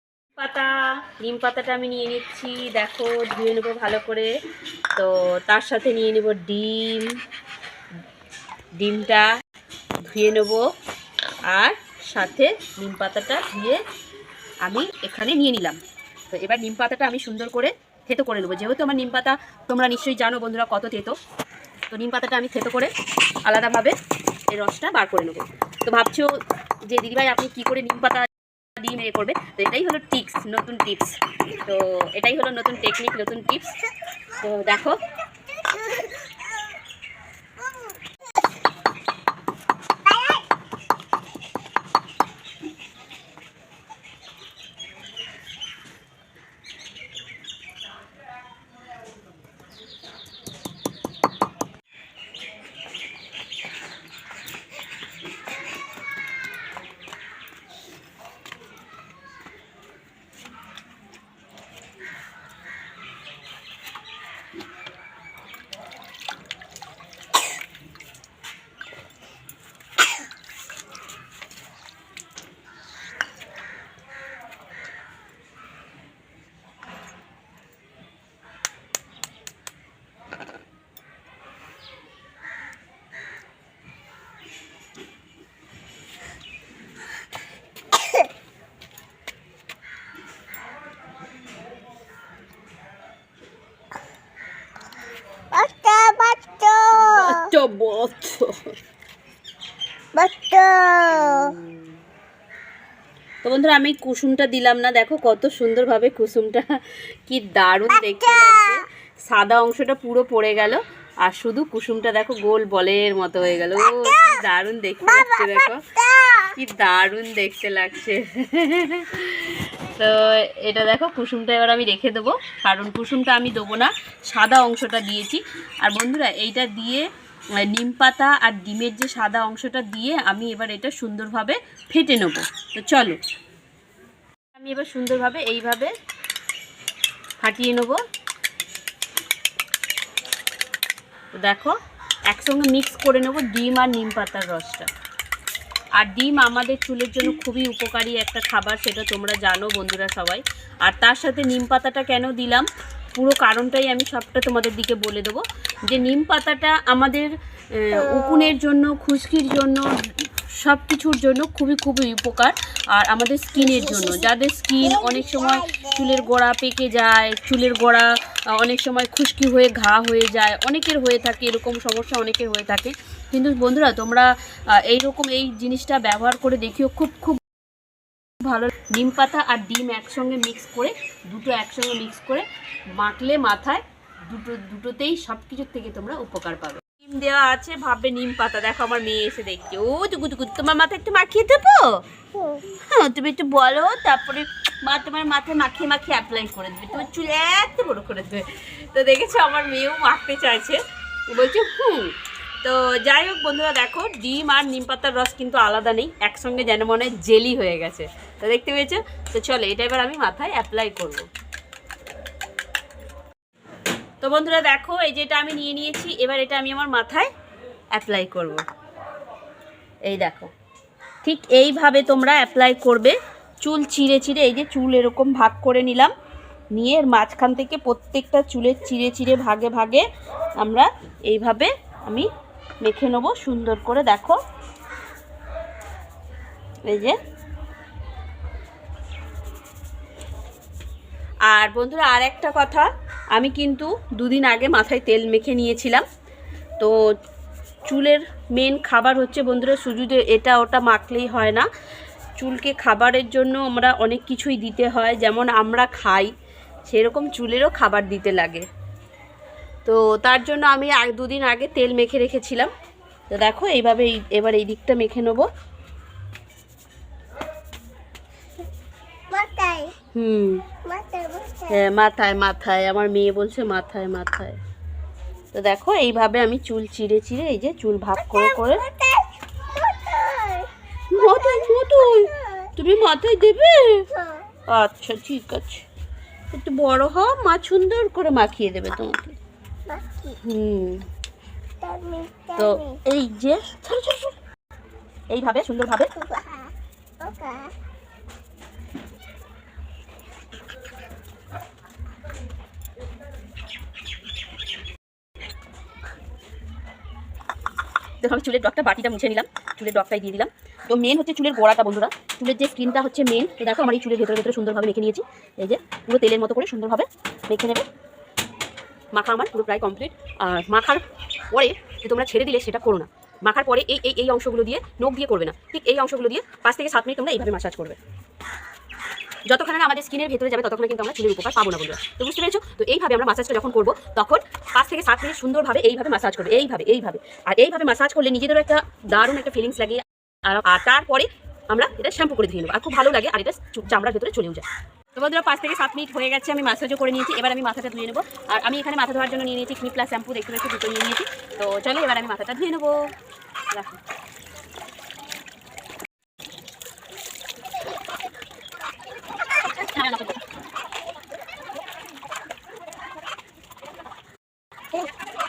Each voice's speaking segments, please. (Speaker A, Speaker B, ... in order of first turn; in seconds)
Speaker A: 0.4-4.3, 5.0-7.2, 8.8-9.3, 10.0-10.7, 11.5-13.8, 14.6-15.8, 16.3-21.2, 21.9-22.9, 23.4-23.9, 24.5-33.8, 34.3-35.0, 96.9-98.7, 101.1-101.9, 103.4-127.1, 127.6-133.2, 134.5-135.9, 137.4-138.0, 141.3-141.8, 142.3-144.9, 146.0-177.4, 178.4-192.0, 192.7-211.3, 214.2-217.3, 217.9-218.6, 220.1-220.5, 221.2-226.1, 226.7-230.1, 230.6-232.3, 232.8-234.4, 236.9-237.2, 241.5-246.0, 247.9-251.7, 252.4-256.3, 256.9-258.7, 259.8-262.7, 263.3-265.5, 270.1-270.6, 271.7-274.6, 275.5-278.9, 281.1-284.1, 284.7-285.8, 286.5-289.4, 290.4-291.1, 292.6-294.3, 295.3-296.1, 308.2-317.9, 319.1-328.0, 329.4-353.1, 353.7-354.0, 359.7-360.4
Speaker B: 35.6-36.2, 40.1-40.4, 88.0-88.2, 95.5-97.5, 100.1-101.5, 113.9-114.2, 115.1-116.5, 165.5-165.9, 192.3-192.6, 269.3-269.9, 270.8-271.8, 278.3-282.7, 284.1-284.4, 289.9-290.4, 291.8-293.0, 296.1-297.7